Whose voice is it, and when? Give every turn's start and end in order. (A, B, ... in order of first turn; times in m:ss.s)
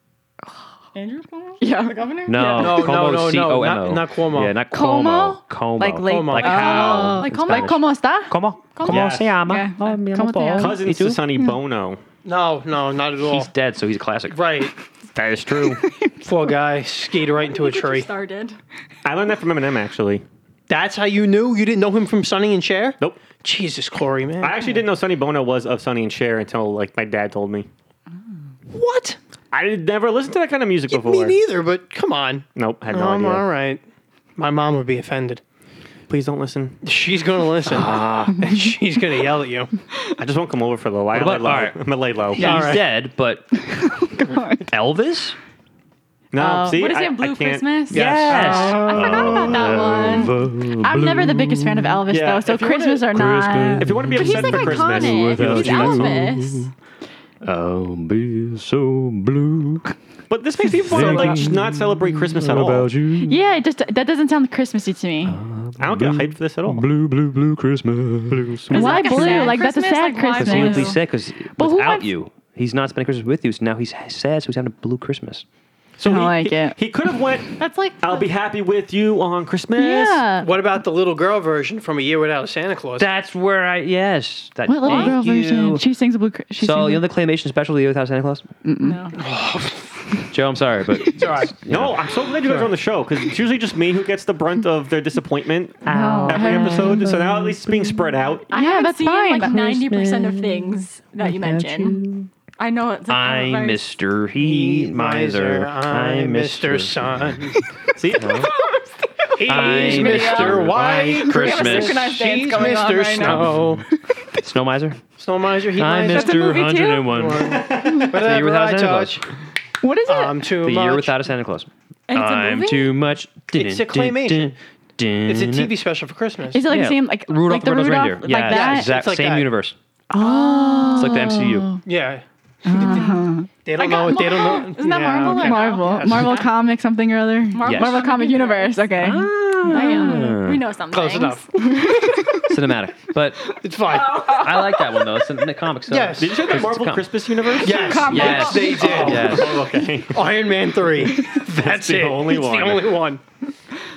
0:00.9-0:03.0 A
0:01.6-0:02.1 B
0:02.3-0:11.2 C
0:02.6-0:04.5 D
0:04.7-0:08.4 B
0:06.0-0:06.8 D
0:06.4-0:07.8 A
0:08.8-0:09.2 A
0:08.9-0:09.3 E
0:09.4-0:10.8 B
0:10.6-0:12.0 E
0:12.2-0:13.5 D
0:13.3-0:14.4 C
0:14.3-0:14.7 D
0:15.1-0:15.9 E
0:15.8-0:16.2 B
0:16.2-0:18.1 D
0:17.4-0:18.6 A
0:19.0-0:20.2 E
0:20.7-0:24.8 D
0:24.4-0:27.7 E
0:28.7-0:29.2 D
0:29.5-0:31.4 E
0:30.9-0:33.8 D
0:32.6-0:33.5 E
0:34.4-0:35.4 D
0:36.1-0:36.8 E
0:36.8-0:39.7 D
0:37.7-0:38.5 C
0:40.2-0:42.7 E
0:41.1-0:41.8 C
0:42.3-0:43.6 C
0:42.4-0:42.8 D
0:43.7-0:44.6 B
0:44.6-0:45.4 C
0:46.3-0:49.3 E
0:46.4-0:46.8 B
0:46.7-0:50.4 A
0:47.9-0:49.7 D
0:47.9-0:52.0 C
0:50.8-0:54.0 B
0:52.1-0:53.1 E
0:53.1-0:56.7 C
0:53.8-0:56.2 E
0:54.1-0:56.7 A
0:57.4-0:59.9 C
1:00.3-1:03.0 E
1:00.7-1:03.4 C
1:03.3-1:05.4 B
1:05.3-1:09.6 C
1:05.8-1:06.9 E
1:08.7-1:11.0 A
1:08.7-1:11.0 B
1:10.4-1:15.4 C
1:11.6-1:12.1 B
1:16.0-1:20.3 E
1:16.0-1:16.8 B
1:17.6-1:18.3 A
1:19.8-1:20.6 B
1:20.4-1:23.1 D
1:23.0-1:25.9 C
1:24.7-1:27.1 B
1:24.8-1:25.2 A
1:26.6-1:28.5 C
1:28.6-1:29.0 B
1:28.8-1:29.2 A
1:29.2-1:30.1 D
1:30.3-1:32.0 C
1:31.1-1:31.6 D
1:31.7-1:38.5 E
1:32.4-1:32.8 D
1:35.8-1:38.1 C
1:35.9-1:37.0 B
1:38.5-1:42.0 A
1:38.5-1:39.6 B
1:39.4-1:42.3 C
1:42.6-1:44.0 A
1:43.1-1:47.3 C
1:44.4-1:47.6 D
1:47.9-1:48.3 E
1:48.1-1:48.5 C
1:49.4-1:53.8 D
1:49.4-1:52.2 C
1:49.6-1:50.6 A
1:50.8-1:51.1 E
1:51.3-1:53.5 A
1:53.2-1:53.8 C
1:54.4-1:55.0 C
1:55.2-1:56.5 D
1:55.7-1:57.5 C
1:56.0-1:57.2 A
1:57.1-1:59.2 D
1:57.4-1:58.3 E
1:58.1-1:59.2 C
1:59.8-2:00.5 B
2:00.1-2:01.2 D
2:00.6-2:05.8 C
2:02.1-2:03.0 A
2:03.5-2:04.6 D
2:05.2-2:06.7 D
2:06.5-2:08.9 B
2:06.7-2:09.8 C
2:08.4-2:09.5 D
2:10.1-2:11.8 B
2:10.2-2:11.2 A
2:10.9-2:11.8 C
2:11.8-2:16.4 D
2:12.6-2:13.5 B
2:12.8-2:13.2 A
2:13.8-2:16.5 A
2:15.3-2:20.4 B
2:17.5-2:18.9 A
2:17.6-2:18.1 C
2:19.0-2:20.6 C
2:19.6-2:21.6 A
2:20.9-2:21.5 D
2:21.6-2:22.5 B
2:22.3-2:23.6 C
2:23.6-2:24.3 D
2:24.1-2:27.2 C
2:24.1-2:24.8 B
2:25.9-2:26.4 D
2:26.2-2:30.3 E
2:27.6-2:29.6 D
2:27.6-2:29.0 B
2:28.1-2:29.7 C
2:30.1-2:33.2 D
2:31.2-2:33.0 E